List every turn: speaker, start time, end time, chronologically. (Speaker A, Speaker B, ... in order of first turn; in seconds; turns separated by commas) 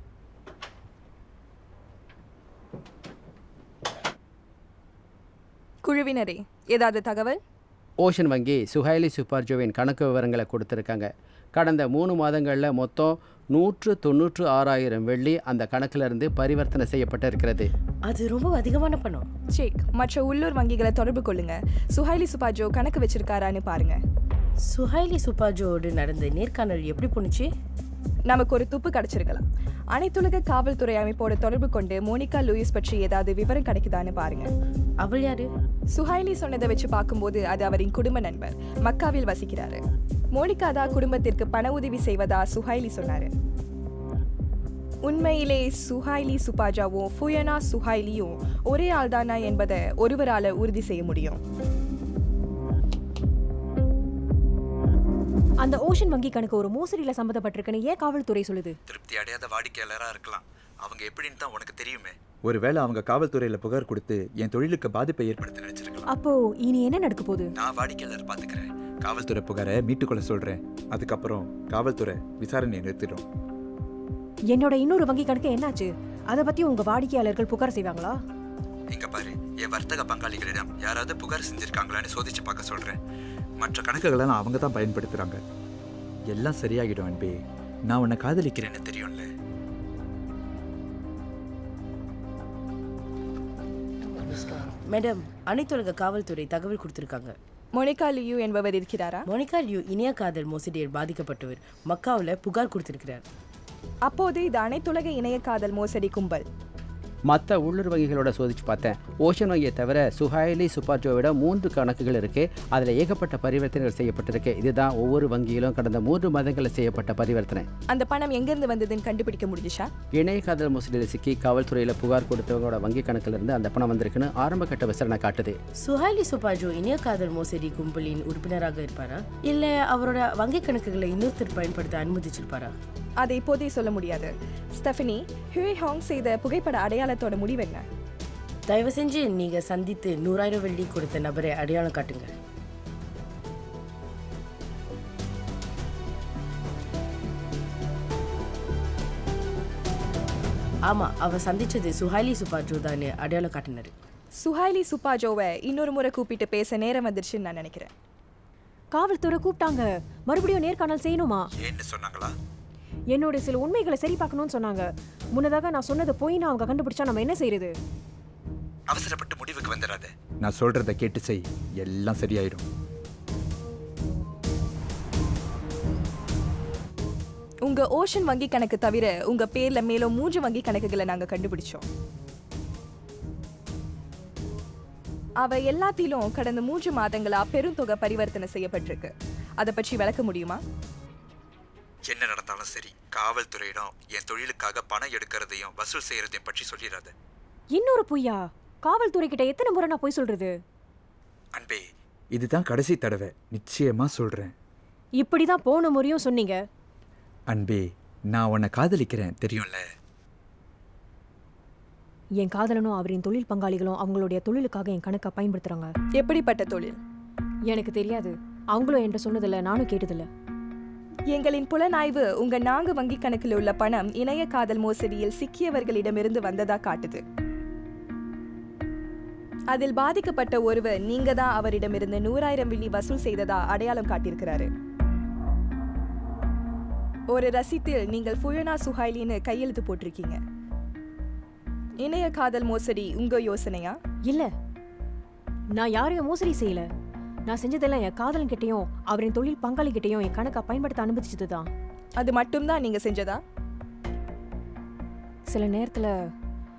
Speaker A: 5.8-7.4, Speaker B: 8.0-17.7, Speaker C: 18.1-19.3, Speaker A: 19.5-24.0, Speaker C: 24.7-27.5, Speaker A: 28.3-34.5, Speaker C: 35.0-35.5, Speaker A: 35.9-39.8, Speaker A: 40.3-43.3, Speaker A: 45.0-51.4, Speaker D: 55.6-58.8, Speaker E: 58.9-66.1, Speaker D: 66.1-67.5, Speaker E: 67.6-73.2, Speaker D: 74.5-78.2, Speaker E: 78.9-83.0, Speaker E: 83.6-85.4, Speaker E: 86.3-89.3, Speaker C: 94.3-97.3, Speaker A: 97.8-99.2, Speaker C: 99.3-103.2, Speaker A: 104.0-106.4, Speaker B: 107.3-117.7, Speaker A: 117.9-119.9, Speaker B: 120.1-125.6, Speaker C: 125.8-132.7, Speaker A: 133.2-137.8, Speaker C: 138.7-142.3, Speaker C: 150.9-153.9, Speaker A: 154.4-157.9, Speaker D: 158.9-161.4, Speaker E: 161.6-162.3, Speaker D: 163.1-167.7, Speaker E: 168.9-172.6, Speaker A: 177.7-181.8, Speaker A: 185.4-190.6, Speaker E: 192.1-197.1, Speaker D: 197.8-200.5, Speaker E: 201.5-201.8, Speaker E: 202.3-204.5, Speaker D: 205.2-206.6, Speaker E: 207.5-209.8, Speaker D: 212.4-215.9, Speaker A: 216.2-217.0, Speaker D: 217.7-220.3, Speaker A: 221.3-227.2, Speaker A: 229.7-234.7, Speaker A: 237.3-240.4, Speaker A: 242.0-244.0, Speaker D: 245.8-246.9, Speaker D: 247.5-251.7, Speaker A: 252.2-253.4, Speaker D: 255.5-256.1